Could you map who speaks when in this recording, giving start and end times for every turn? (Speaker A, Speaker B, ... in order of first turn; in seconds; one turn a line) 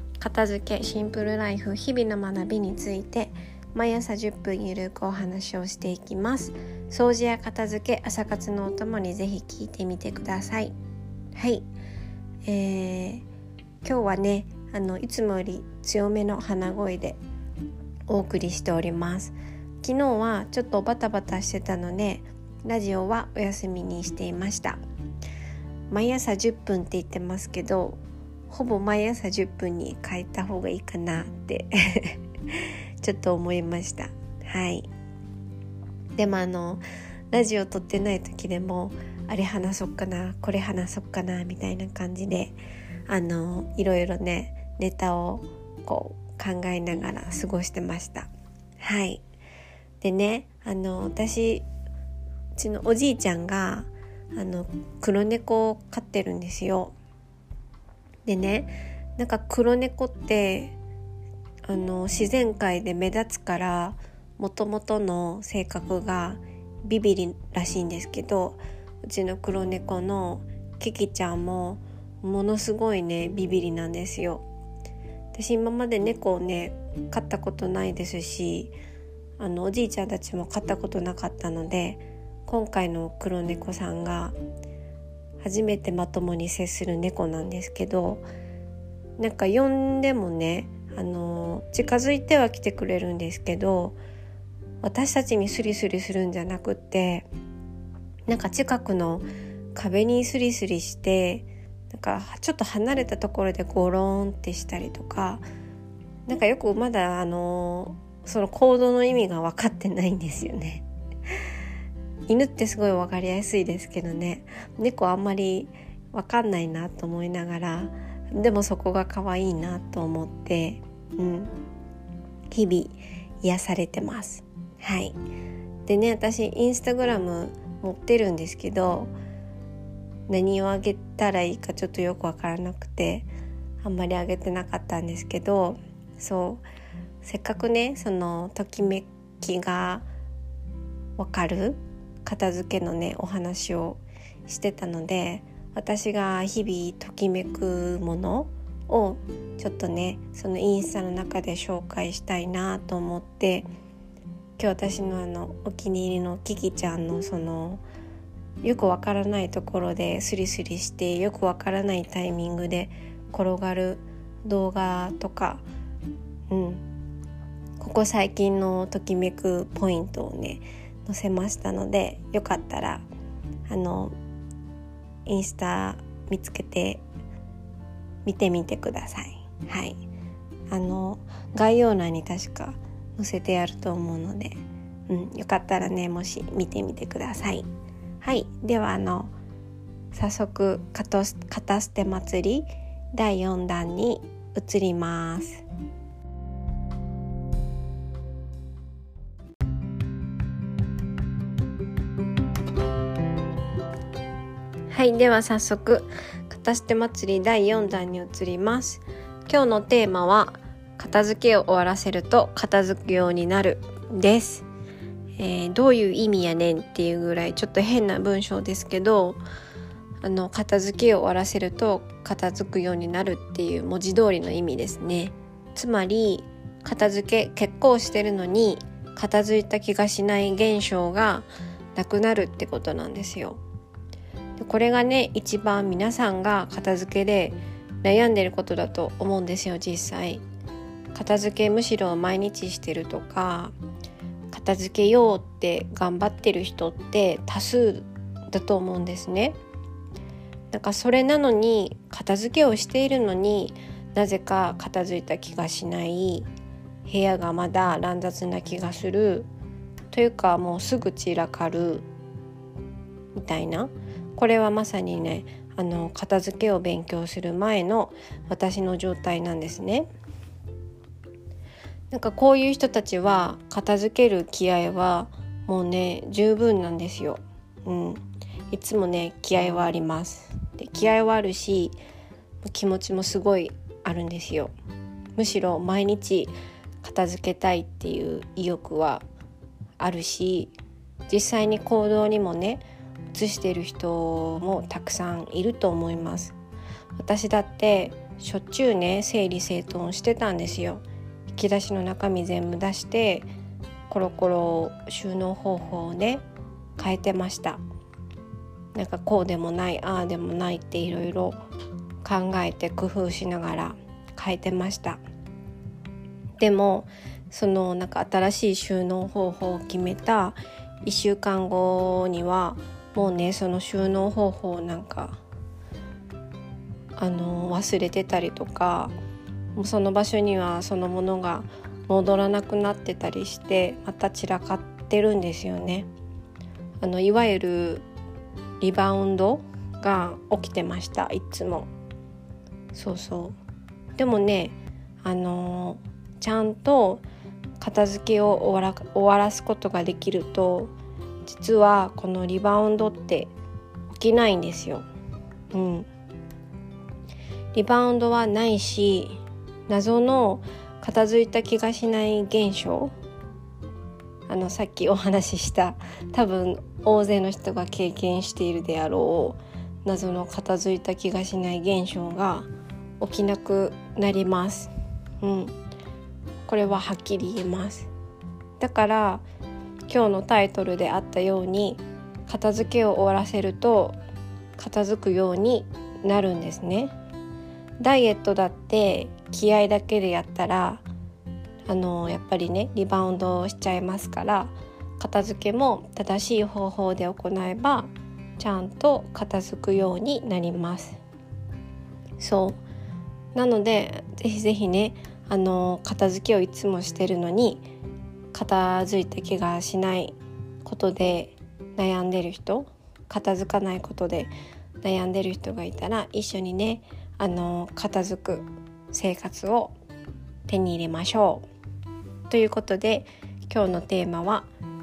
Speaker A: 0.2-10.8
Speaker A: 11.3-11.7
Speaker A: 12.5-13.2
Speaker A: 13.8-17.2
Speaker A: 18.1-24.8
Speaker A: 25.9-28.0
Speaker A: 28.5-34.9
Speaker A: 36.2-42.5
Speaker A: 43.1-49.2
Speaker A: 50.0-51.6
Speaker A: 52.6-57.0
Speaker A: 58.3-60.8
Speaker A: 61.7-74.4
Speaker A: 75.3-78.7
Speaker A: 79.4-84.4
Speaker A: 85.4-88.2
Speaker A: 89.2-94.0
Speaker A: 94.8-97.3
Speaker A: 98.3-105.4
Speaker A: 106.3-110.8
Speaker A: 112.3-121.5
Speaker A: 122.5-125.2
Speaker A: 125.9-129.1
Speaker A: 130.3-133.3
Speaker A: 133.8-136.6
Speaker A: 137.2-140.1
Speaker A: 141.2-153.7
Speaker A: 154.6-157.8
Speaker A: 158.6-165.6
Speaker A: 166.5-166.8
Speaker A: 167.8-173.1
Speaker A: 173.7-174.1
Speaker A: 175.3-177.0
Speaker A: 178.2-180.0
Speaker A: 180.7-187.7
Speaker A: 188.2-189.3
Speaker A: 190.1-195.6
Speaker A: 204.9-214.7
Speaker A: 215.4-219.4
Speaker A: 220.2-233.6
Speaker A: 234.6-240.4
Speaker A: 241.1-243.8
Speaker A: 244.5-249.6
Speaker A: 250.7-256.5
Speaker A: 257.1-259.5
Speaker A: 260.1-262.1
Speaker A: 263.3-270.1
Speaker A: 272.1-282.0
Speaker A: 282.6-284.7
Speaker A: 285.4-289.2
Speaker A: 290.0-290.7
Speaker A: 291.3-296.6
Speaker A: 297.2-303.5
Speaker A: 304.1-306.4
Speaker A: 307.0-307.8
Speaker A: 308.9-311.6
Speaker A: 312.2-315.2
Speaker A: 316.6-325.4
Speaker A: 327.2-329.2
Speaker A: 329.8-336.1
Speaker A: 337.0-338.1
Speaker A: 338.8-341.9
Speaker A: 342.9-343.6
Speaker A: 344.2-347.2
Speaker A: 347.8-350.9
Speaker A: 351.4-353.5
Speaker A: 354.1-355.1
Speaker A: 355.7-356.1
Speaker A: 357.7-363.1
Speaker A: 364.5-372.7
Speaker A: 373.2-375.7
Speaker A: 376.7-378.1
Speaker A: 378.8-379.4
Speaker A: 380.1-384.2
Speaker A: 384.8-387.1
Speaker A: 388.0-391.1
Speaker A: 391.9-401.2
Speaker A: 402.4-402.8
Speaker A: 403.5-407.9
Speaker A: 408.5-414.5
Speaker A: 415.0-419.9
Speaker A: 420.7-421.6
Speaker A: 422.5-424.7